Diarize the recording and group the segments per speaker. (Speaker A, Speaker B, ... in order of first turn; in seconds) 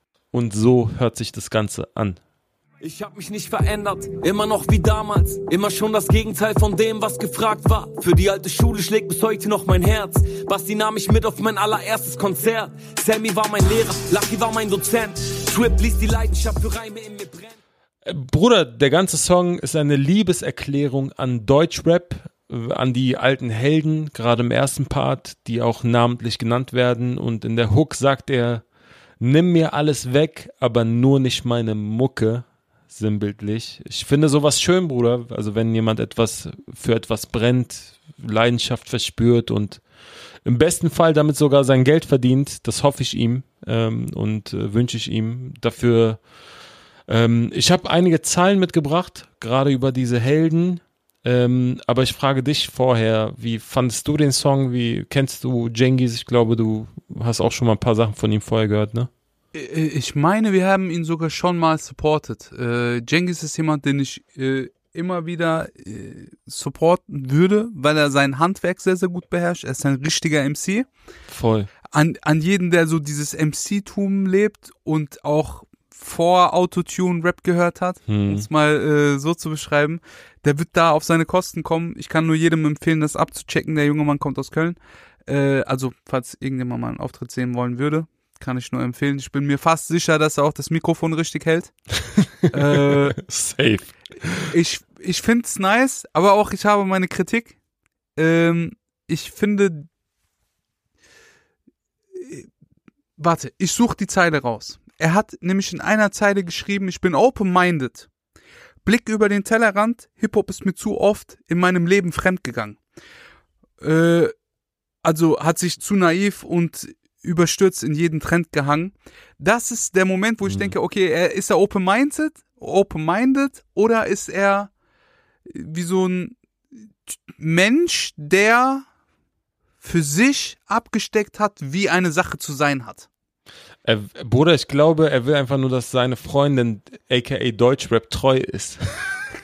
Speaker A: 0.3-2.2, 18.1-28.6, 29.2-39.8, 40.4-46.2, 47.1-59.1, 71.3-71.7, 78.1-78.5, 92.0-94.5, 120.4-120.7, 133.8-139.2
Speaker B: 2.8-17.6
Speaker C: 59.5-70.9, 71.9-91.7, 92.5-93.2, 94.5-97.5, 98.2-99.9, 102.1-102.5, 103.2-108.1, 108.8-112.8, 113.8-114.3, 115.0-124.7, 125.5-126.3, 127.1-128.9, 129.8-133.1